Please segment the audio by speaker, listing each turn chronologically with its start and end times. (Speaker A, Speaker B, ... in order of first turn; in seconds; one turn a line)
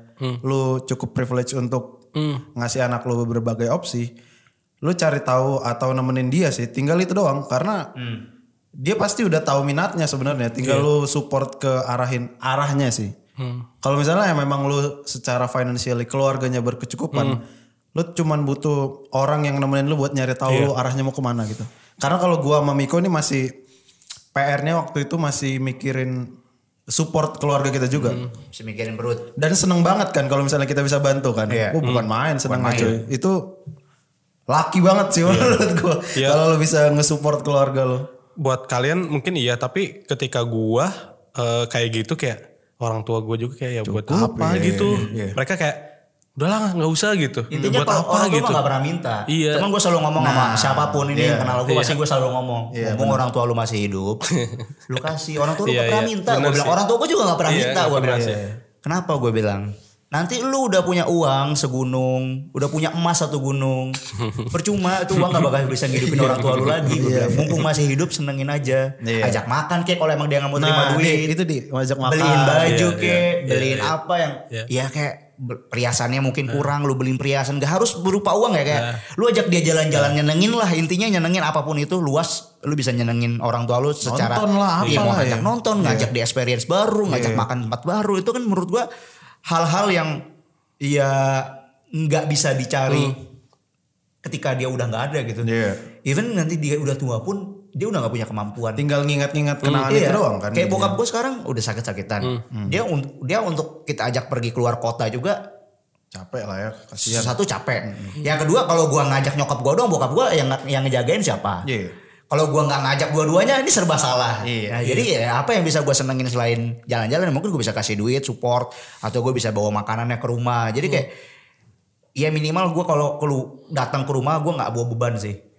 Speaker A: 0.4-2.0
Speaker B: 2.1-2.4
Speaker A: 2.5-4.1
Speaker A: 4.8-7.8
Speaker C: 8.0-8.2
Speaker A: 8.8-13.1
Speaker B: 10.6-10.9
Speaker B: 13.4-13.7
Speaker A: 13.8-17.4
Speaker B: 17.1-17.4
Speaker A: 17.9-23.5
Speaker A: 24.3-26.3
Speaker A: 26.9-28.2
Speaker B: 28.0-28.3
Speaker C: 28.5-29.3
Speaker A: 29.4-33.4
Speaker C: 31.5-31.8
Speaker B: 31.8-32.1
Speaker C: 32.5-33.0
Speaker A: 34.5-38.0
Speaker B: 35.3-35.6
Speaker B: 38.4-45.8
Speaker A: 43.8-45.4
Speaker C: 44.8-45.2
Speaker B: 46.4-48.6
Speaker C: 47.5-54.2
Speaker B: 49.3-49.7
Speaker A: 50.2-51.6
Speaker B: 51.7-52.0
Speaker A: 52.7-53.2
Speaker B: 54.4-54.7
Speaker C: 54.9-64.0
Speaker B: 55.6-56.8
Speaker B: 57.5-58.4
Speaker A: 58.1-58.6
Speaker B: 64.2-64.5
Speaker C: 64.5-71.3
Speaker B: 65.1-67.0
Speaker A: 66.9-67.6
Speaker A: 69.0-69.4
Speaker A: 70.6-72.8
Speaker C: 72.0-88.9
Speaker B: 72.7-73.9
Speaker B: 78.7-79.0
Speaker A: 84.0-86.1
Speaker B: 84.8-85.2
Speaker A: 87.1-87.5
Speaker C: 89.5-90.2
Speaker C: 90.8-93.2
Speaker C: 94.2-95.5
Speaker A: 95.4-95.8
Speaker C: 96.0-98.8
Speaker A: 98.8-101.0
Speaker C: 99.8-105.4
Speaker A: 102.5-102.8
Speaker A: 106.1-107.3
Speaker C: 107.0-111.6
Speaker A: 111.6-111.9
Speaker C: 112.3-121.1
Speaker A: 114.4-115.1
Speaker C: 122.2-125.4